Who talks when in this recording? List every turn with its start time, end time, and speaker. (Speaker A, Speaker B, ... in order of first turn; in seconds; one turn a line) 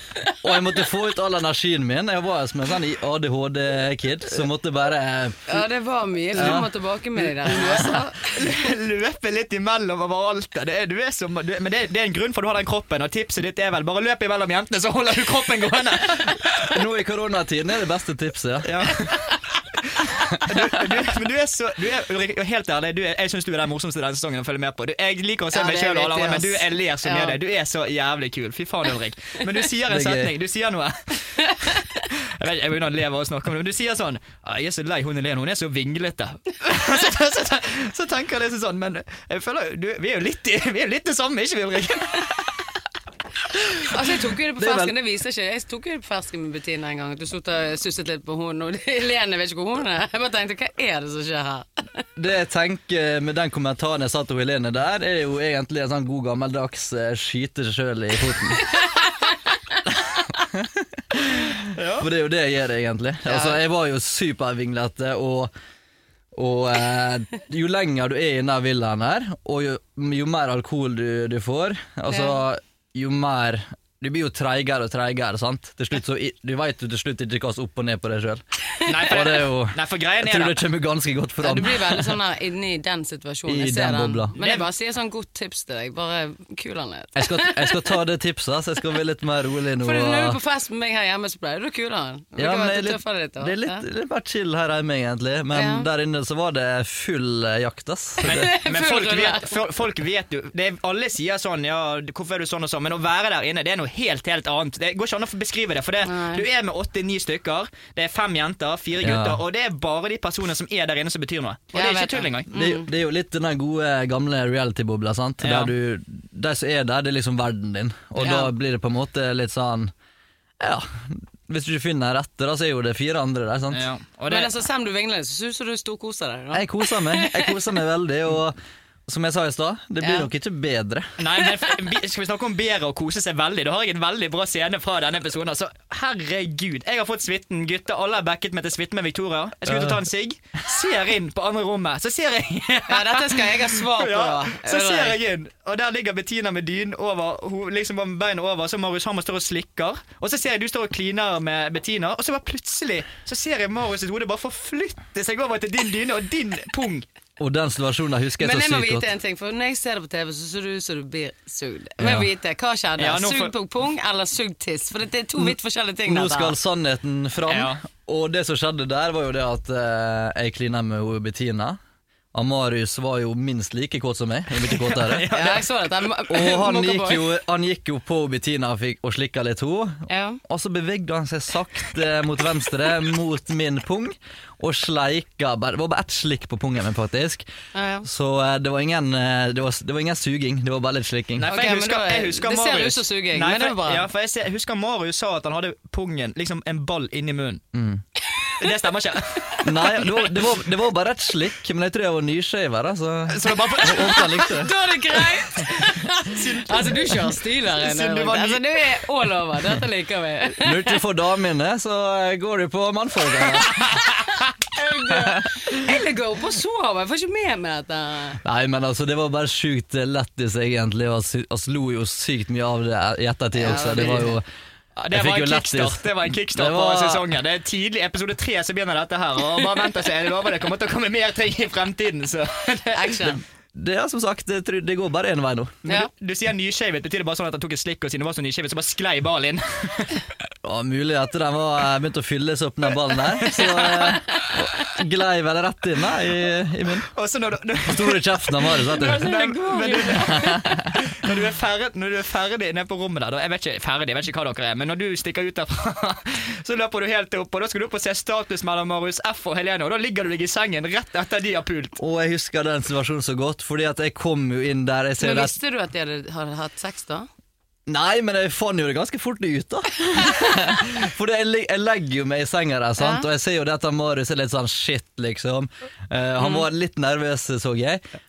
Speaker A: 0.3-5.7
Speaker B: 5.5-8.3
Speaker A: 6.3-6.7
Speaker A: 7.4-7.9
Speaker C: 7.6-16.8
Speaker A: 16.7-18.7
Speaker C: 18.6-42.7
Speaker B: 25.5-27.4
Speaker A: 29.9-30.3
Speaker B: 43.9-52.0
Speaker A: 44.6-44.9
Speaker A: 52.2-58.7
Speaker B: 58.6-59.0
Speaker A: 60.5-65.5
Speaker C: 61.7-62.1
Speaker B: 63.3-63.5
Speaker A: 66.3-78.4
Speaker C: 78.9-80.6
Speaker A: 79.0-82.1
Speaker B: 81.4-87.8
Speaker A: 83.5-84.3
Speaker C: 84.4-84.6
Speaker A: 87.2-90.4
Speaker B: 89.8-93.8
Speaker A: 92.4-98.5
Speaker B: 95.5-95.9
Speaker C: 98.2-112.5
Speaker B: 98.2-99.5
Speaker B: 106.0-106.4
Speaker A: 109.0-109.4
Speaker B: 111.7-112.9
Speaker A: 112.5-119.9
Speaker C: 115.4-115.7
Speaker B: 118.2-118.5
Speaker A: 120.6-123.8
Speaker C: 123.7-124.5
Speaker B: 124.3-127.5
Speaker A: 126.5-128.6
Speaker A: 129.1-131.2
Speaker B: 130.0-130.3
Speaker C: 131.2-157.1
Speaker A: 139.7-139.9
Speaker B: 142.9-145.2
Speaker A: 157.4-159.1
Speaker B: 158.4-166.6
Speaker A: 162.0-162.3
Speaker C: 163.0-163.5
Speaker A: 165.4-171.8
Speaker C: 167.5-167.8
Speaker A: 172.3-175.3
Speaker C: 174.7-175.7
Speaker B: 175.3-177.3
Speaker A: 176.3-187.4
Speaker B: 180.1-180.4
Speaker B: 187.7-188.1
Speaker A: 188.1-191.5
Speaker C: 191.4-197.6
Speaker B: 191.4-194.1
Speaker A: 197.7-198.0
Speaker C: 198.6-200.1
Speaker A: 199.6-204.7
Speaker C: 203.3-204.5
Speaker B: 204.0-211.0
Speaker C: 206.3-208.6
Speaker A: 210.6-213.9
Speaker C: 213.8-214.1
Speaker B: 214.7-218.4
Speaker A: 218.4-224.4
Speaker B: 223.6-224.4
Speaker C: 223.9-224.2
Speaker C: 224.9-233.3
Speaker A: 225.1-227.3
Speaker B: 232.9-233.4
Speaker A: 233.8-235.8
Speaker C: 235.8-240.2
Speaker A: 240.6-247.1
Speaker C: 243.4-244.1
Speaker C: 247.1-262.0
Speaker A: 247.9-249.3
Speaker B: 248.9-250.7
Speaker A: 250.2-250.9
Speaker A: 262.0-265.6
Speaker B: 265.2-267.3
Speaker A: 267.9-278.0
Speaker B: 273.0-273.3